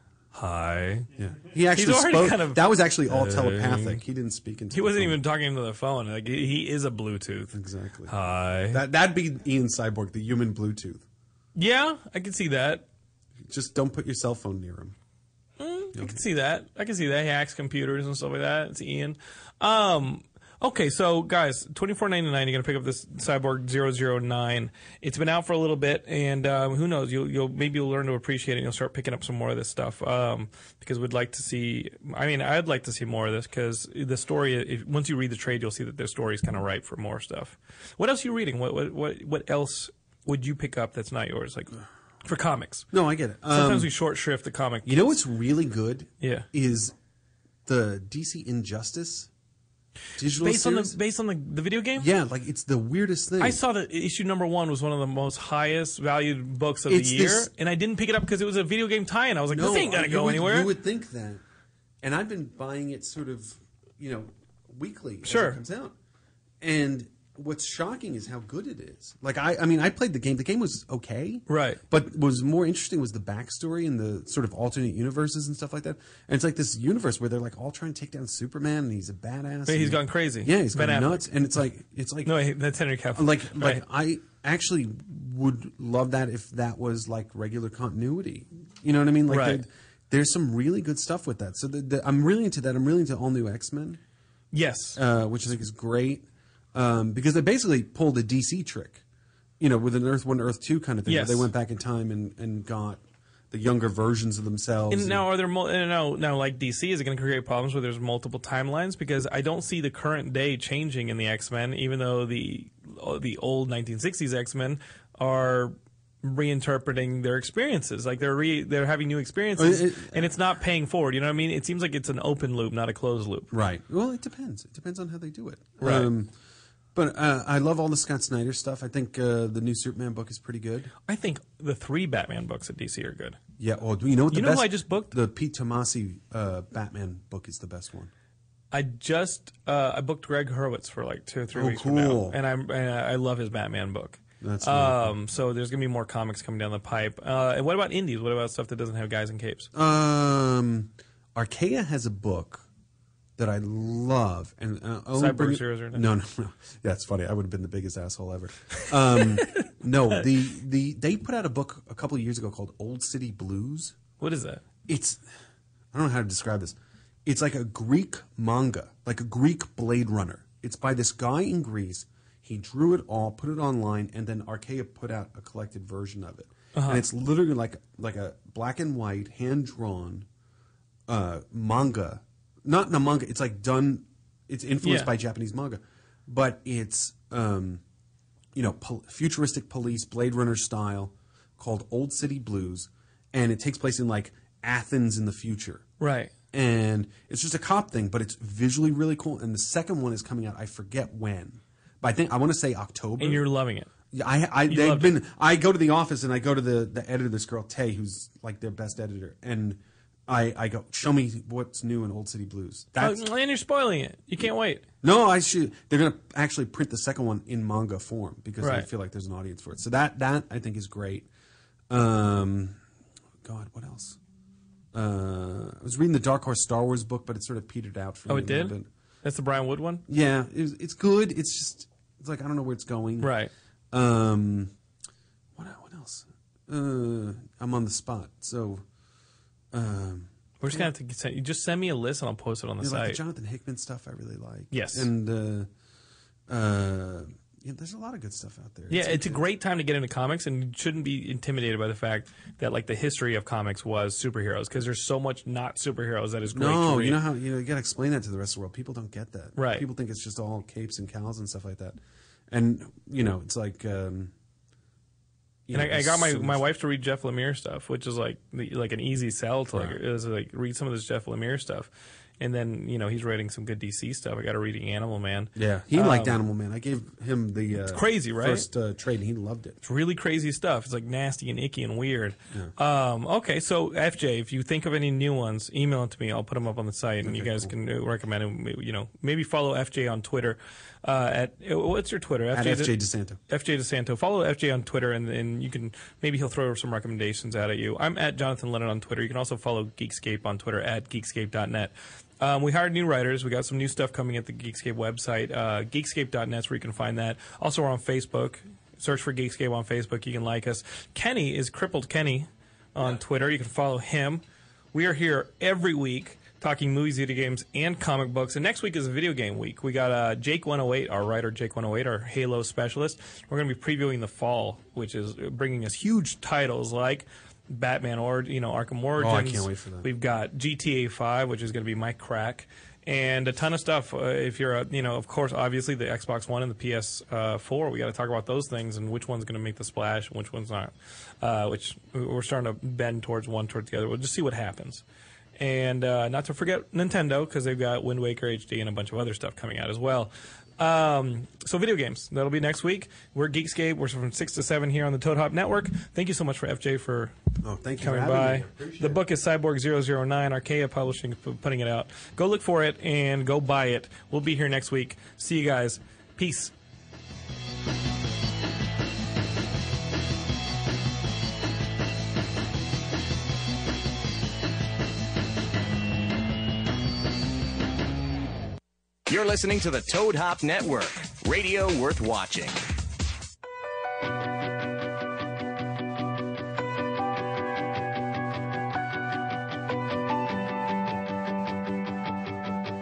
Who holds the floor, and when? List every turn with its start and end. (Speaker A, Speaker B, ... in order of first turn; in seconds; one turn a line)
Speaker A: 0.3-1.1
Speaker B: 1.1-5.2
Speaker A: 1.7-4.0
Speaker A: 4.7-7.5
Speaker B: 7.5-8.1
Speaker A: 8.1-8.8
Speaker B: 8.7-11.0
Speaker A: 11.6-12.8
Speaker B: 13.5-14.9
Speaker A: 15.6-42.9
Speaker B: 42.9-43.9
Speaker A: 43.5-45.0
Speaker B: 44.8-46.9
Speaker A: 46.2-46.5
Speaker B: 47.6-49.3
Speaker B: 50.2-50.9
Speaker A: 50.2-52.1
Speaker B: 52.0-53.6
Speaker A: 53.4-60.7
Speaker B: 56.9-57.5
Speaker B: 59.5-61.4
Speaker B: 62.0-66.0
Speaker A: 65.2-65.6
Speaker B: 66.6-82.4
Speaker A: 71.5-71.8
Speaker A: 79.7-81.3
Speaker A: 82.2-83.8
Speaker B: 83.1-94.0
Speaker A: 89.3-89.6
Speaker A: 94.5-95.0
Speaker B: 95.0-99.0
Speaker B: 99.6-105.2
Speaker A: 101.1-101.5
Speaker A: 104.9-123.5
Speaker B: 119.6-120.3
Speaker B: 123.5-126.3
Speaker A: 125.8-126.1
Speaker B: 126.9-130.9
Speaker A: 131.1-133.4
Speaker B: 133.6-138.1
Speaker A: 134.3-135.1
Speaker A: 138.7-149.7
Speaker B: 141.5-142.4
Speaker B: 144.4-145.2
Speaker B: 149.7-152.7
Speaker B: 153.4-164.0
Speaker A: 155.1-156.1
Speaker A: 159.4-159.6
Speaker A: 164.2-164.6
Speaker B: 164.9-165.2
Speaker B: 165.9-180.3
Speaker A: 176.7-177.0
Speaker B: 181.1-187.8
Speaker A: 184.8-185.1
Speaker B: 188.5-195.9
Speaker A: 196.0-196.3
Speaker B: 196.5-203.4
Speaker A: 203.2-203.9
Speaker B: 204.1-213.3
Speaker A: 204.7-205.1
Speaker A: 213.0-214.8
Speaker B: 215.0-221.3
Speaker A: 218.6-218.9
Speaker B: 221.9-222.8
Speaker B: 223.4-224.2
Speaker B: 224.9-228.9
Speaker A: 228.3-230.0
Speaker B: 230.1-233.3
Speaker A: 233.2-233.5
Speaker B: 233.9-234.7
Speaker B: 235.6-238.8
Speaker B: 239.7-240.9
Speaker A: 240.6-243.2
Speaker B: 242.8-245.7
Speaker A: 244.7-245.1
Speaker B: 246.5-249.4
Speaker A: 248.9-257.2
Speaker B: 256.5-262.0
Speaker A: 259.6-259.9
Speaker B: 262.5-264.3
Speaker B: 265.7-266.6
Speaker A: 265.7-276.4
Speaker B: 269.7-270.0
Speaker B: 275.6-279.8
Speaker A: 277.9-278.6
Speaker A: 279.8-292.9
Speaker B: 287.2-287.7
Speaker B: 292.5-293.4
Speaker A: 293.5-314.4
Speaker A: 314.9-345.0
Speaker B: 329.2-330.1
Speaker A: 345.6-357.3
Speaker B: 357.6-359.2
Speaker A: 358.0-366.7
Speaker C: 379.3-382.8